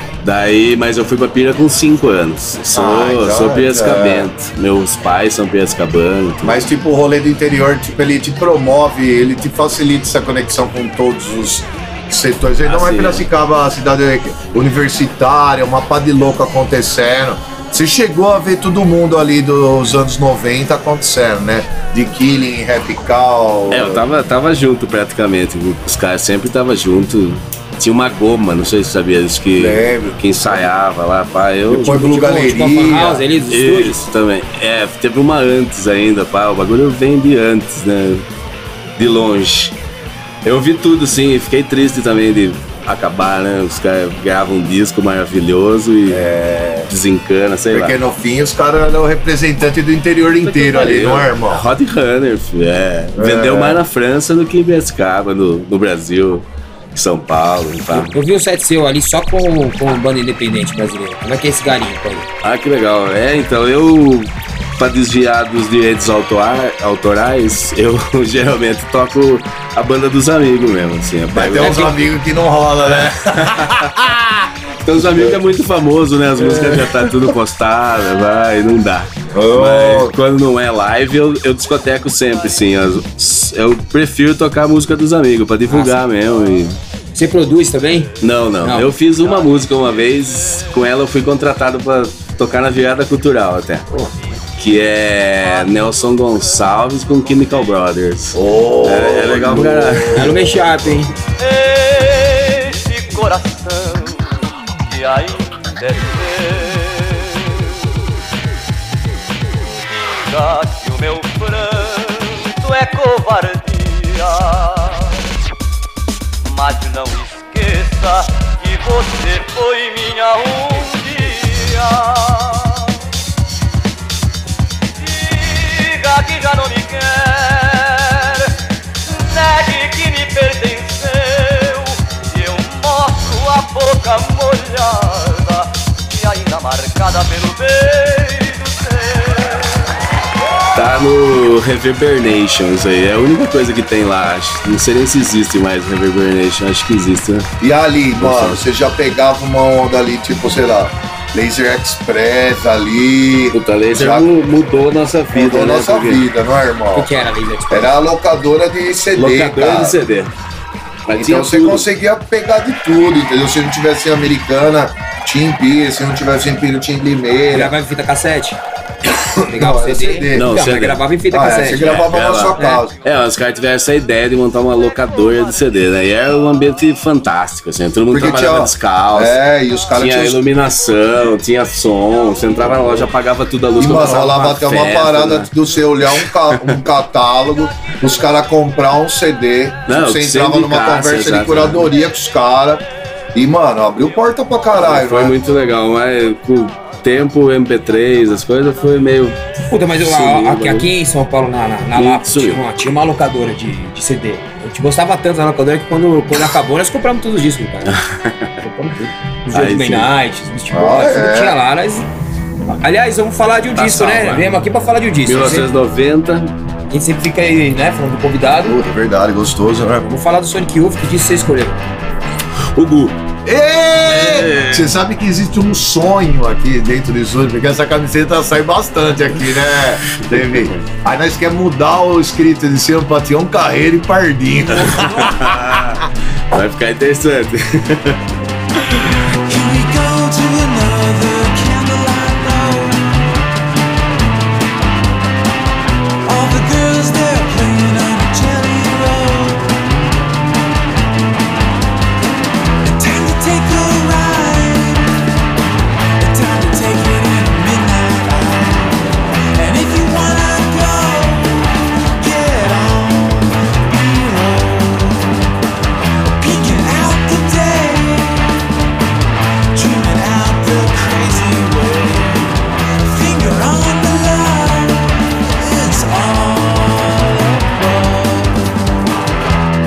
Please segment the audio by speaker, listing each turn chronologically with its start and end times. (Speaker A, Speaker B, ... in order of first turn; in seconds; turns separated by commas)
Speaker A: 0.2-6.6, Speaker B: 2.7-4.3, Speaker B: 6.4-24.0, Speaker A: 12.7-13.3, Speaker A: 23.7-31.9, Speaker B: 29.5-30.7, Speaker B: 31.7-33.2, Speaker C: 31.7-34.0, Speaker A: 33.5-38.2, Speaker A: 39.0-39.8, Speaker A: 40.4-46.2, Speaker B: 46.1-46.9, Speaker A: 46.9-48.0, Speaker B: 47.7-51.6, Speaker A: 50.4-58.2, Speaker B: 53.1-53.8, Speaker C: 57.9-62.3, Speaker A: 62.4-71.9, Speaker B: 71.3-74.4, Speaker C: 71.6-71.9, Speaker A: 72.9-73.9, Speaker A: 74.8-86.8, Speaker B: 75.0-75.4, Speaker B: 76.4-77.3, Speaker B: 79.3-80.1, Speaker C: 85.7-85.9, Speaker C: 87.1-88.1, Speaker A: 88.2-93.8, Speaker C: 88.6-88.9, Speaker A: 94.6-100.3, Speaker B: 98.3-100.8, Speaker C: 100.1-101.1, Speaker D: 102.4-104.0, Speaker D: 105.0-106.9, Speaker D: 110.1-111.7, Speaker D: 112.4-114.3, Speaker D: 116.5-120.5, Speaker A: 119.8-121.3, Speaker D: 121.8-122.2, Speaker D: 126.0-127.4, Speaker D: 129.3-131.5, Speaker A: 129.6-130.9, Speaker D: 132.4-138.7, Speaker A: 140.7-147.5, Speaker B: 147.6-154.3, Speaker A: 148.2-148.6, Speaker A: 153.5-156.2, Speaker B: 155.3-157.1, Speaker C: 156.9-157.9, Speaker B: 157.7-160.0, Speaker A: 159.1-160.3, Speaker A: 161.1-161.8, Speaker B: 161.2-167.7, Speaker C: 167.5-168.6, Speaker B: 169.0-170.5, Speaker C: 169.4-172.0, Speaker A: 170.3-171.1, Speaker B: 171.3-172.9, Speaker A: 171.8-179.4, Speaker C: 172.6-172.8, Speaker B: 178.1-180.4, Speaker A: 179.9-185.5, Speaker B: 183.8-195.4, Speaker A: 186.1-186.8, Speaker A: 189.9-191.9, Speaker A: 194.8-199.4, Speaker C: 199.7-208.0, Speaker A: 200.0-200.9, Speaker A: 201.9-202.6, Speaker A: 207.8-208.5, Speaker C: 208.6-212.1, Speaker A: 209.5-210.1, Speaker B: 210.7-211.6, Speaker C: 212.7-215.7, Speaker A: 213.8-214.5, Speaker A: 215.2-216.5, Speaker C: 216.9-218.8, Speaker B: 218.6-220.1, Speaker C: 220.1-221.8, Speaker A: 222.7-223.2, Speaker B: 223.4-235.9, Speaker A: 224.0-224.9, Speaker A: 230.5-230.7, Speaker A: 235.0-238.2, Speaker A: 238.8-239.1, Speaker E: 239.4-243.2, Speaker E: 246.2-249.7, Speaker E: 252.8-255.2, Speaker E: 256.2-265.3, Speaker E: 266.4-268.5, Speaker E: 269.7-278.6